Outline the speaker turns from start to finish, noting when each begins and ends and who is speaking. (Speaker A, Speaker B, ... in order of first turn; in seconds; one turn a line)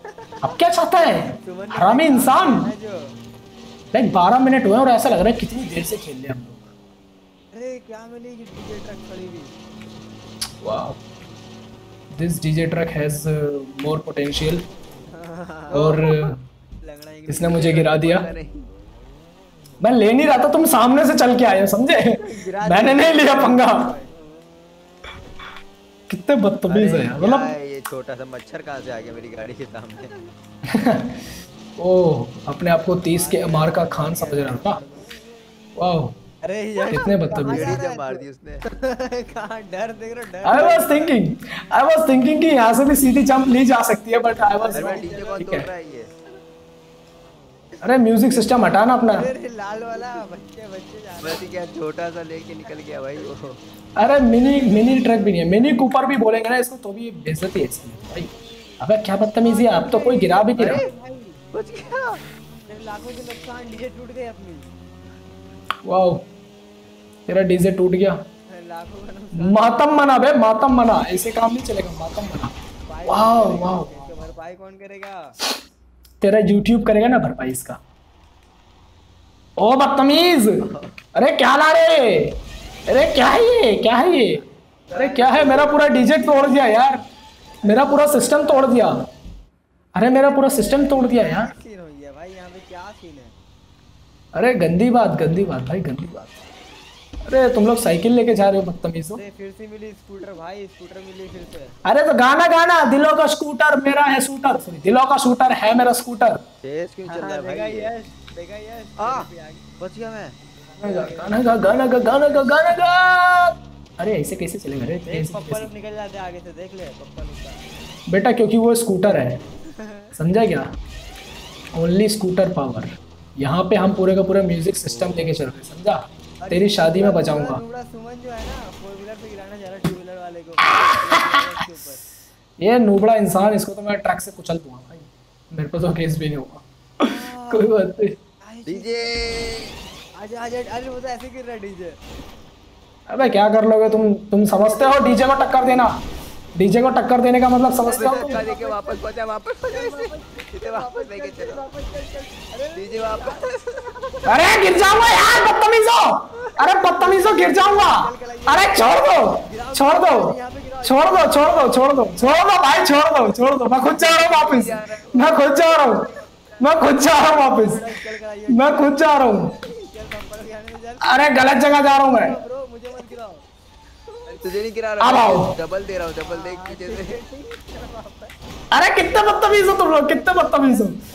Speaker A: 0.1-3.1
Speaker B: 0.4-2.7
Speaker B: 3.9-6.7
Speaker A: 7.5-9.6
Speaker B: 10.6-11.0
Speaker B: 12.1-14.7
Speaker A: 15.1-16.0
Speaker C: 15.7-16.3
Speaker B: 15.7-16.4
Speaker A: 16.8-17.9
Speaker B: 17.3-18.3
Speaker C: 17.4-18.7
Speaker B: 19.8-23.9
Speaker A: 22.1-24.1
Speaker B: 26.1-27.5
Speaker C: 26.7-30.1
Speaker B: 30.7-31.2
Speaker B: 31.8-34.8
Speaker A: 33.1-35.1
Speaker B: 35.8-36.2
Speaker A: 36.5-41.2
Speaker C: 36.6-38.6
Speaker B: 36.9-37.8
Speaker B: 40.4-45.7
Speaker A: 44.4-45.5
Speaker C: 44.7-46.1
Speaker B: 47.8-49.3
Speaker A: 49.0-51.5
Speaker C: 51.2-53.6
Speaker B: 54.0-60.8
Speaker A: 54.3-56.1
Speaker A: 59.4-61.4
Speaker C: 60.6-60.9
Speaker C: 61.5-62.2
Speaker A: 62.7-64.7
Speaker B: 65.8-66.2
Speaker B: 67.3-68.2
Speaker A: 68.5-70.4
Speaker B: 69.3-72.5
Speaker A: 72.9-75.4
Speaker B: 73.1-74.0
Speaker B: 76.2-77.8
Speaker B: 79.6-87.0
Speaker A: 84.9-86.6
Speaker A: 87.6-88.9
Speaker B: 87.6-89.0
Speaker B: 90.0-91.5
Speaker A: 90.0-93.3
Speaker B: 94.3-96.4
Speaker B: 97.2-99.2
Speaker A: 99.1-101.8
Speaker B: 101.8-106.4
Speaker C: 106.6-107.9
Speaker A: 107.1-109.7
Speaker C: 109.0-110.3
Speaker A: 110.7-112.8
Speaker B: 110.8-115.7
Speaker A: 115.0-117.6
Speaker B: 118.1-119.4
Speaker A: 119.7-120.1
Speaker B: 120.2-120.7
Speaker B: 121.8-127.6
Speaker C: 124.9-125.2
Speaker A: 126.4-132.0
Speaker B: 130.8-131.4
Speaker B: 132.6-138.2
Speaker A: 137.0-137.9
Speaker A: 138.4-139.2
Speaker C: 138.7-139.8
Speaker A: 140.2-142.0
Speaker B: 143.1-146.0
Speaker A: 144.5-145.9
Speaker B: 146.6-148.4
Speaker A: 147.8-149.0
Speaker C: 147.9-151.7
Speaker A: 149.7-155.8
Speaker C: 152.7-154.0
Speaker B: 154.3-166.1
Speaker A: 156.3-163.4
Speaker C: 163.9-165.6
Speaker A: 164.3-164.6
Speaker A: 165.8-173.5
Speaker B: 166.6-167.8
Speaker B: 168.5-169.5
Speaker B: 171.0-172.4
Speaker A: 174.1-174.6
Speaker C: 174.3-177.2
Speaker B: 175.0-175.6
Speaker A: 176.2-178.3
Speaker B: 178.7-181.0
Speaker A: 179.0-180.9